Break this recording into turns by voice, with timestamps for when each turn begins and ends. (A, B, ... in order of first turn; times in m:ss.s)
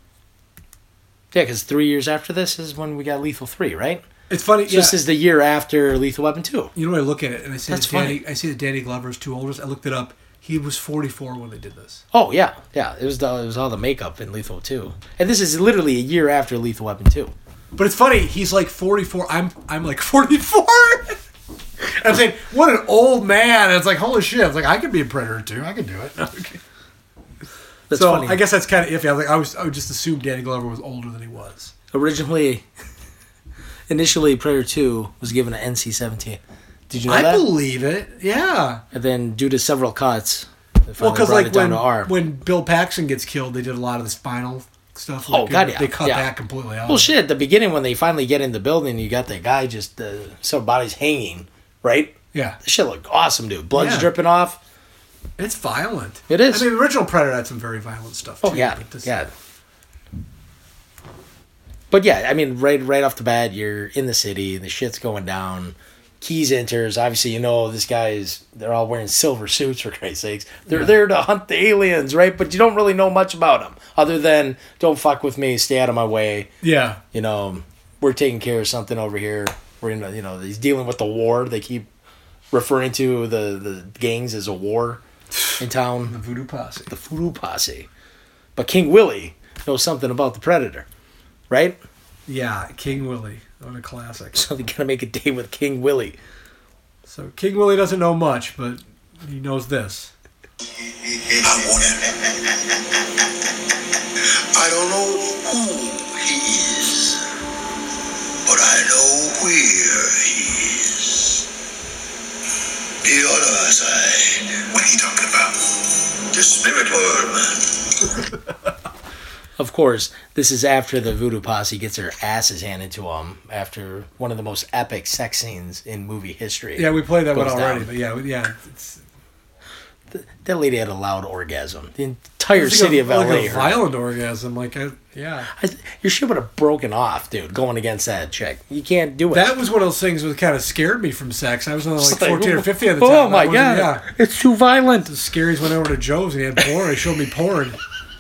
0:01.3-0:04.0 A
0:04.3-0:05.0 B
0:04.7-0:06.7 A
0:06.8-0:12.0 B
0:07.7-0:08.2 A
0:12.1-0:17.3 A
0:17.8-0:21.2 B
0:21.8-0:26.6 B
0:27.9-0:28.4 A
0:27.9-0:31.7 B
0:31.9-0:32.6 A
0:33.9-0:37.5 A
0:37.1-0:38.8 B
0:38.9-0:42.1 A
0:41.0-0:47.1 B
0:45.3-0:46.3 A
0:46.9-0:54.6 A
0:52.3-0:52.6 B
0:53.8-0:54.1 B
0:55.4-0:59.3 B
0:56.3-0:56.7 A
0:58.4-0:59.3 A
1:01.9-1:16.5 A
1:16.6-1:17.0 B
1:17.1-1:21.9 A
1:22.5-1:25.0 A
1:25.4-1:26.9 B
1:25.6-1:26.2 A
1:26.9-1:27.9 A
1:28.6-1:30.9 A
1:31.5-1:31.8 A
1:32.3-1:34.5 B
1:34.3-1:36.2 A
1:37.1-1:40.1 B
1:41.0-1:42.6 C
1:44.3-1:47.2 C
1:48.4-1:51.5 C
1:53.0-1:55.7 C
1:56.3-1:58.1 C
1:59.6-2:07.9 A
2:06.8-2:09.0 B
2:10.1-2:13.8 A
2:12.5-2:15.5 B
2:15.5-2:19.5 A
2:19.3-2:24.1 B
2:22.0-2:25.1 A
2:25.1-2:27.8 B